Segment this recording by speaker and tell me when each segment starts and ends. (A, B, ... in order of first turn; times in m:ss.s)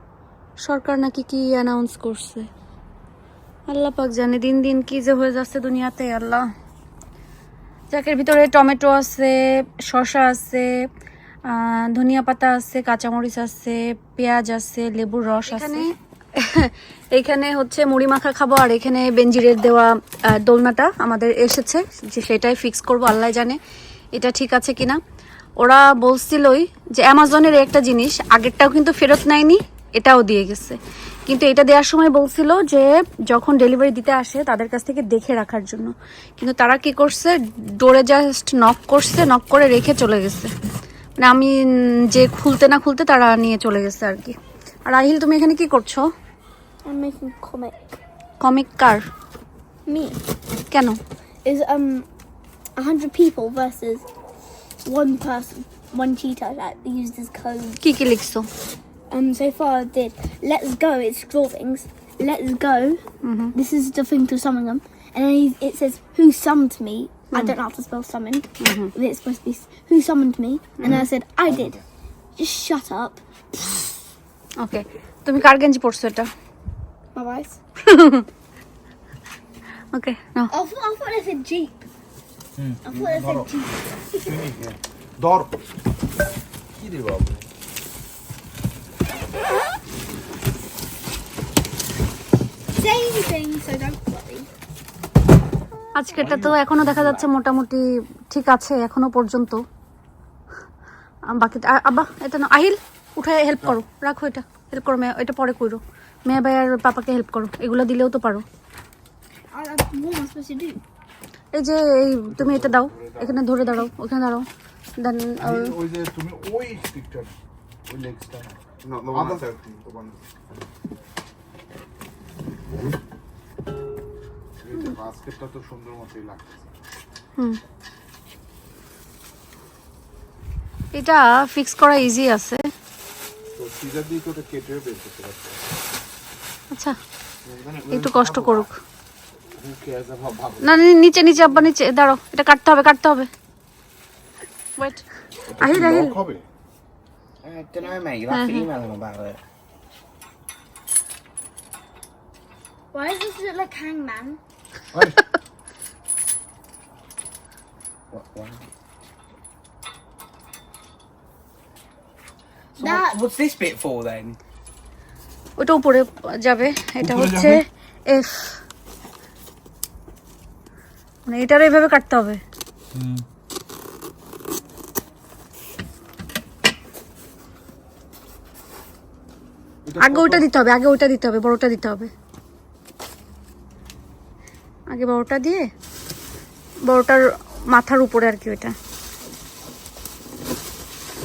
0:00.6-0:02.5 A
0:03.7-0:06.4 A
0:07.9-0:09.4 A
0:09.9-0:10.7 A
0:11.5-0:15.8 A
0:16.4-0:23.6 A
0:24.1-0:25.0 A
0:25.6-0:40.5 A
0:41.2-0:41.6 A
0:42.1-0:46.0 A
0:46.8-0:47.8 B
0:48.4-0:49.0 A
0:49.9-0:50.2 B
0:50.7-0:51.0 A
0:51.4-0:52.1 B
0:52.8-0:54.0 B
0:54.8-0:57.8 B
0:57.8-0:58.5 A
0:59.1-1:03.0 B
1:03.2-1:03.6 A
1:03.6-1:11.8 B
1:08.6-1:08.9 A
1:12.4-1:13.2 B
1:14.6-1:16.3 A
1:17.2-1:17.6 B
1:17.8-1:18.2 A
1:19.9-1:20.5 A
1:20.5-1:21.9 B
1:22.6-1:23.0 C
1:22.8-1:24.4 B
1:23.1-1:23.5 D
1:24.2-1:24.7 D
1:25.2-1:25.5 D
1:26.8-1:27.4 D
1:32.8-1:34.5 B
1:35.9-1:39.6 A
1:36.2-1:37.2 D
1:41.3-1:48.4 A
1:49.5-1:50.8 B
1:51.5-1:54.4 A
1:52.3-1:53.4 D
1:55.0-1:55.8 A
1:55.4-1:57.4 D
1:57.9-2:00.2 D
1:58.8-1:59.4 C
2:04.6-2:06.7 D
2:10.9-2:12.6 A
2:13.6-2:15.6 D
2:17.5-2:18.7 C
2:17.9-2:18.7 A
2:19.6-2:20.6 D
2:20.6-2:23.3 A
2:24.8-2:25.0 A
2:25.5-2:26.4 D
2:25.6-2:26.2 A
2:27.4-2:29.4 C
2:28.3-2:28.7 A
2:32.9-2:34.4 B
2:38.1-2:38.6 C
2:42.8-2:44.4 C
2:42.8-2:43.2 B
2:45.6-2:48.6 A
2:47.0-2:47.6 D
2:51.2-2:52.4 A
2:53.0-2:53.2 D
2:59.9-3:00.5 D
3:00.0-3:02.1 A
3:04.9-3:05.6 A
3:06.9-3:08.7 A